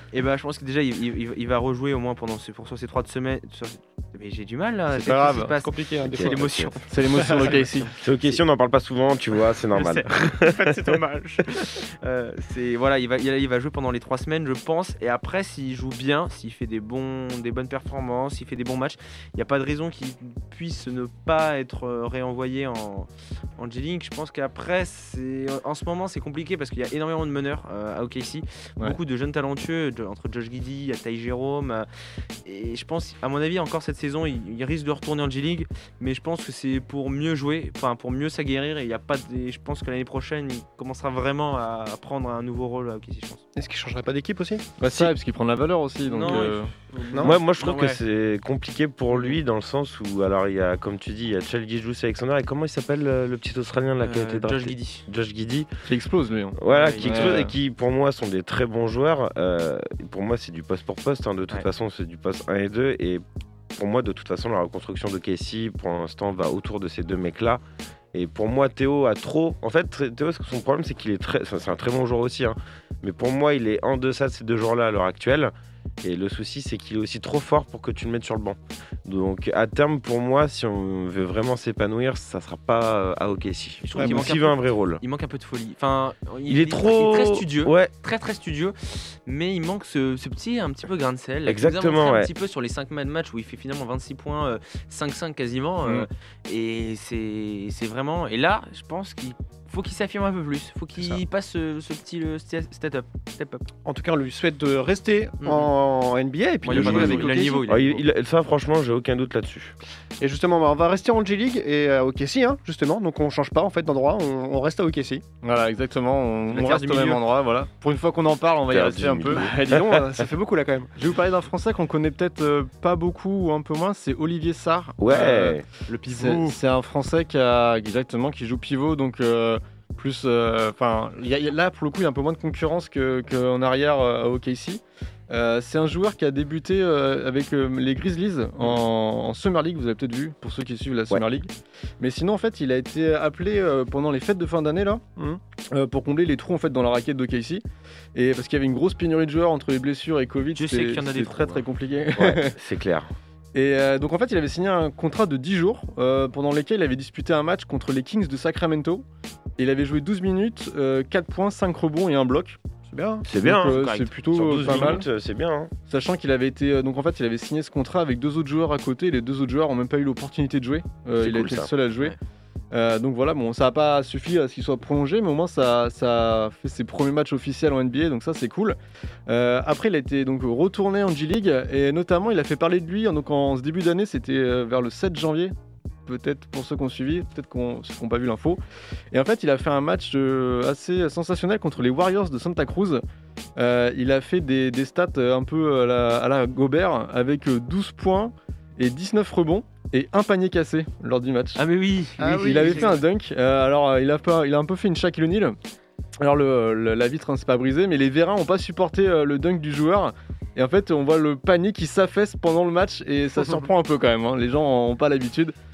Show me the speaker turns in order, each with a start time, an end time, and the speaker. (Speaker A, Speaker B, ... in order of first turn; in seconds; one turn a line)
Speaker A: 0.1-7.7
Speaker B: 5.0-5.5
Speaker C: 5.6-6.4
Speaker D: 6.1-6.7
Speaker B: 6.9-7.9
Speaker D: 8.0-10.8
Speaker C: 10.4-11.4
Speaker A: 11.6-31.9
Speaker A: 32.4-43.4
Speaker C: 43.5-44.7
Speaker B: 44.8-46.7
Speaker A: 46.1-48.0
Speaker C: 47.1-47.4
Speaker D: 47.2-55.7
Speaker A: 49.1-49.4
Speaker A: 54.0-55.0
Speaker B: 55.9-57.5
Speaker D: 56.5-63.2
Speaker A: 56.6-57.4
Speaker D: 63.8-67.6
Speaker D: 68.1-85.0
Speaker A: 83.8-103.7
Speaker C: 84.0-84.2
Speaker D: 86.5-87.9
Speaker D: 91.4-92.3
Speaker C: 103.8-107.6
Speaker A: 105.4-105.7
Speaker A: 106.6-108.0
Speaker D: 106.7-109.7
Speaker C: 110.2-115.2
Speaker B: 115.4-119.9
Speaker A: 116.5-117.2
Speaker D: 118.7-119.5
Speaker C: 119.3-120.9
Speaker B: 121.0-145.0
Speaker D: 125.0-125.6
Speaker A: 125.9-126.6
Speaker B: 145.7-147.6
Speaker B: 148.1-152.6
Speaker A: 150.5-151.6
Speaker D: 152.1-153.1
Speaker B: 153.5-159.0
Speaker B: 159.6-162.6
Speaker C: 162.9-163.3
Speaker D: 163.2-165.7
Speaker B: 163.4-165.1
Speaker A: 164.6-165.0
Speaker B: 165.9-172.1
Speaker D: 171.2-171.7
Speaker B: 172.7-185.5
Speaker B: 186.1-188.6
Speaker B: 189.1-193.0
Speaker B: 193.6-201.6
Speaker A: 201.6-202.9
Speaker C: 202.2-203.0
Speaker B: 202.4-205.6
Speaker B: 206.2-215.5